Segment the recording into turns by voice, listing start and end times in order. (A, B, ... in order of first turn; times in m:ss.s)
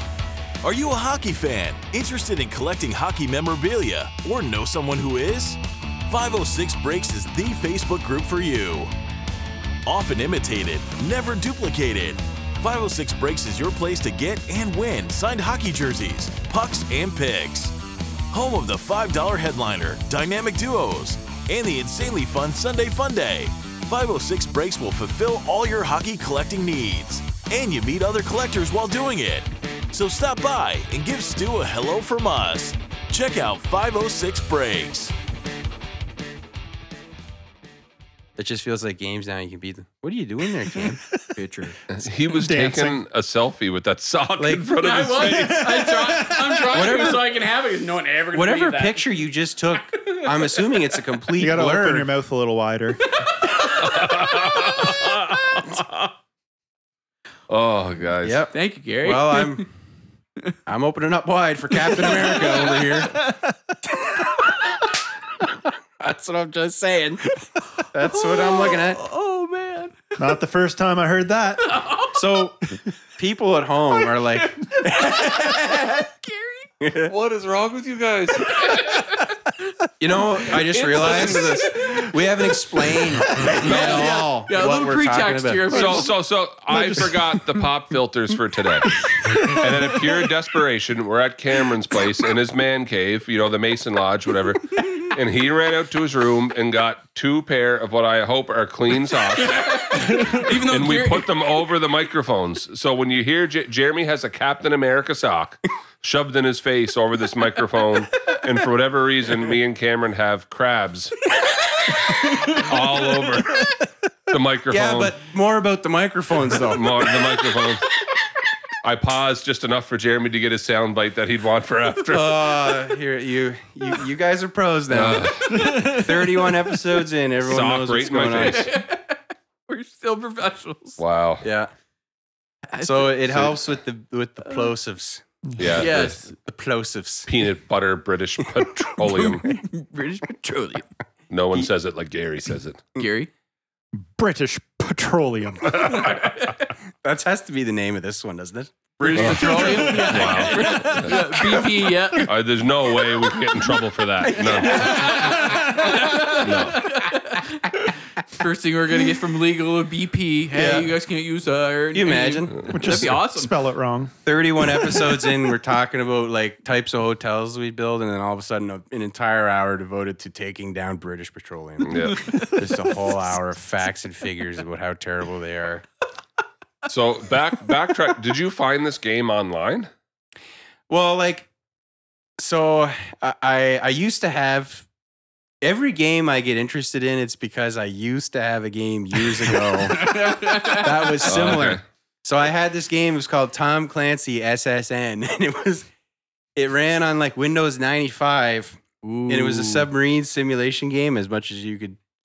0:00.6-0:08.9 A
0:09.8-0:17.8 A
0:18.3-0:35.1 A
0:38.4-0:41.0 B
0:41.4-0:41.8 C
0:41.9-0:45.8 D
0:42.3-0:43.0 E
0:44.4-0:45.2 B
0:44.8-0:49.2 C
0:45.6-0:46.4 E
0:46.6-0:47.3 B
0:48.3-0:52.1 B
0:50.0-0:50.7 C
0:51.4-0:53.0 E
0:53.2-0:54.6 C
0:53.8-0:56.0 D
0:57.5-0:58.4 D
0:58.2-0:59.7 B
0:58.5-0:59.6 C
1:00.7-1:03.3 B
1:02.0-1:02.8 C
1:06.0-1:09.0 B
1:08.0-1:10.1 C
1:10.2-1:11.9 E
1:11.6-1:12.2 C
1:12.1-1:16.1 B
1:14.2-1:16.7 C
1:16.8-1:17.1 B
1:17.1-1:19.0 D
1:18.4-1:19.3 C
1:20.0-1:26.1 B
1:20.5-1:21.8 D
1:21.2-1:22.0 C
1:23.4-1:26.1 C
1:25.7-1:51.2 D
1:29.3-1:29.6 E
1:39.4-1:41.3 C
1:40.1-1:40.4 E
1:52.4-1:53.7 D
1:54.3-1:55.2 D
1:54.7-1:57.1 B
1:56.5-1:57.8 D
1:58.8-2:02.8 D
2:02.1-2:08.7 B
2:04.9-2:06.0 D
2:07.4-2:08.7 D
2:08.4-2:11.0 C
2:11.0-2:11.4 D
2:11.4-2:11.7 B
2:12.7-2:13.5 C
2:12.8-2:17.3 B
2:15.6-2:16.2 D
2:15.7-2:16.4 C
2:17.3-2:19.5 D
2:19.0-2:20.9 C
2:21.3-2:22.9 D
2:23.0-2:23.3 C
2:23.9-2:26.1 E
2:25.8-2:26.5 C
2:27.0-2:32.2 B
2:29.0-2:32.3 C
2:29.2-2:31.2 D
2:32.2-2:35.3 D
2:33.1-2:33.5 B
2:34.2-2:36.4 B
2:34.4-2:43.5 C
2:36.4-2:36.9 D
2:40.5-2:40.9 B
2:41.9-2:43.0 B
2:42.7-2:44.2 E
2:44.2-2:55.8 B
2:51.9-2:52.3 D
2:52.1-2:52.6 C
2:56.9-2:59.9 D
3:00.9-3:01.5 B
3:02.4-3:04.9 B
3:05.6-3:15.9 B
3:09.6-3:11.5 C
3:11.2-3:11.8 D
3:16.6-3:22.0 B
3:19.0-3:19.9 C